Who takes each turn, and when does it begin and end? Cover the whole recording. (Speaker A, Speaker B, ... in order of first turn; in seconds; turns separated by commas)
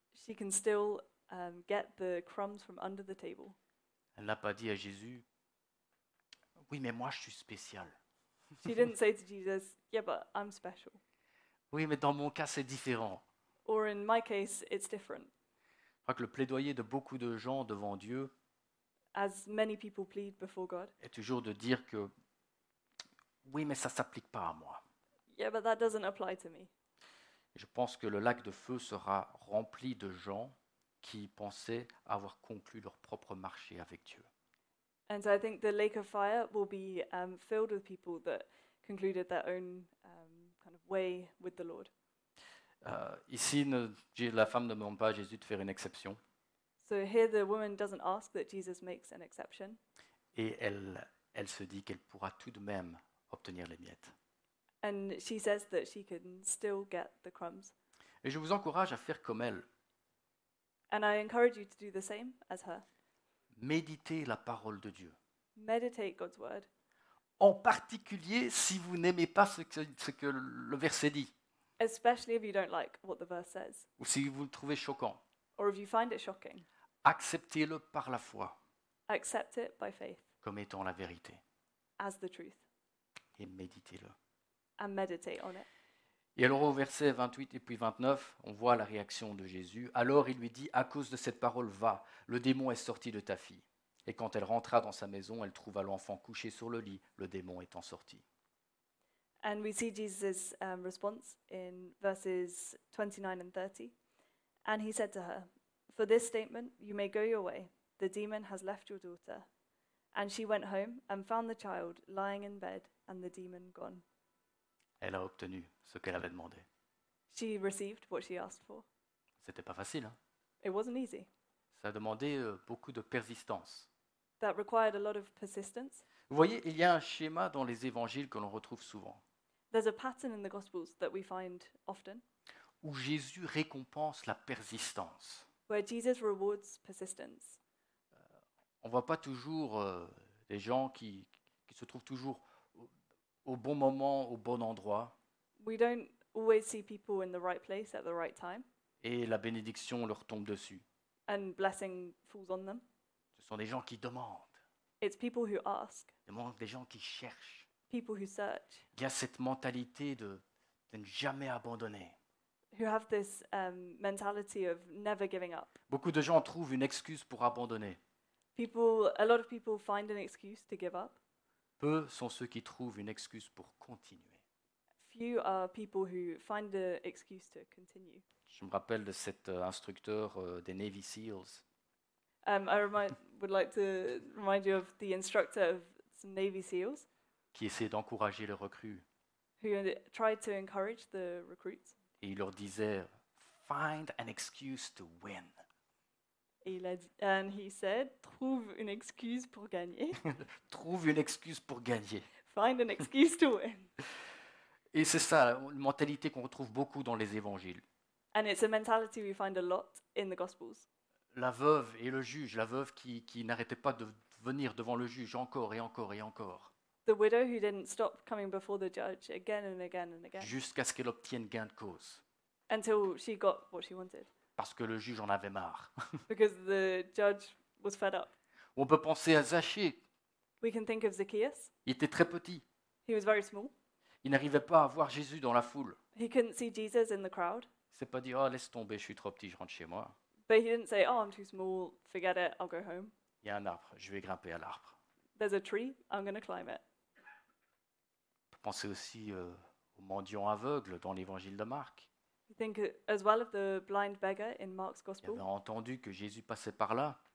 Speaker A: 0.1-3.6, Speaker B: 4.2-5.2, Speaker B: 6.6-8.0, Speaker A: 8.6-11.0, Speaker B: 11.7-13.2, Speaker A: 13.7-15.3, Speaker B: 16.1-18.3, Speaker A: 19.1-20.9, Speaker B: 21.0-22.1, Speaker B: 23.4-24.8, Speaker A: 25.3-26.7, Speaker B: 27.6-34.3, Speaker A: 35.1-41.9, Speaker B: 42.8-46.2, Speaker A: 46.8-49.8, Speaker B: 50.4-54.1, Speaker A: 54.8-57.7, Speaker B: 58.2-59.7, Speaker A: 60.9-62.9, Speaker B: 63.5-65.2, Speaker A: 65.6-66.7, Speaker B: 67.4-71.3, Speaker A: 71.8-73.9, Speaker B: 74.0-75.2, Speaker A: 75.6-76.7, Speaker B: 77.0-78.6, Speaker A: 79.1-80.2, Speaker B: 80.4-81.4, Speaker A: 82.0-82.6, Speaker B: 83.4-84.2, Speaker A: 84.8-85.7, Speaker B: 86.4-98.2, Speaker A: 99.4-103.9, Speaker A: 104.7-109.5, Speaker A: 110.1-114.0, Speaker B: 115.0-116.7, Speaker A: 117.3-118.9, Speaker B: 119.4-120.2, Speaker A: 120.6-121.3, Speaker B: 121.7-123.9, Speaker A: 124.4-126.0, Speaker B: 126.3-129.2, Speaker A: 129.7-132.2, Speaker B: 132.8-135.5, Speaker A: 135.7-137.6, Speaker B: 138.8-142.9, Speaker B: 143.4-145.2, Speaker A: 145.6-148.7, Speaker B: 149.0-150.8, Speaker A: 151.3-152.8, Speaker B: 153.4-154.6, Speaker A: 155.0-156.1, Speaker B: 156.3-157.7, Speaker A: 157.9-158.8, Speaker B: 158.9-162.2, Speaker A: 162.7-165.7, Speaker B: 165.9-168.0, Speaker A: 168.6-171.2, Speaker B: 171.8-174.4, Speaker A: 175.0-178.2, Speaker B: 178.5-181.6, Speaker A: 182.4-187.1, Speaker B: 187.5-189.0, Speaker A: 189.6-192.0, Speaker B: 192.2-195.6, Speaker A: 196.6-200.2, Speaker B: 200.2-202.3, Speaker A: 202.5-203.9, Speaker B: 204.9-207.8, Speaker A: 208.3-210.9, Speaker B: 211.3-216.7, Speaker A: 217.1-220.5, Speaker B: 220.4-222.2, Speaker A: 222.7-224.3, Speaker B: 224.6-226.2, Speaker A: 226.3-228.3, Speaker B: 228.8-230.0, Speaker A: 230.6-231.7, Speaker B: 231.8-232.7, Speaker A: 233.1-233.7, Speaker B: 234.2-236.0, Speaker A: 236.2-237.7, Speaker B: 237.9-240.1, Speaker A: 240.5-243.1, Speaker B: 243.4-245.0, Speaker A: 245.4-246.8, Speaker B: 248.5-252.1, Speaker A: 252.5-255.4, Speaker B: 255.2-257.2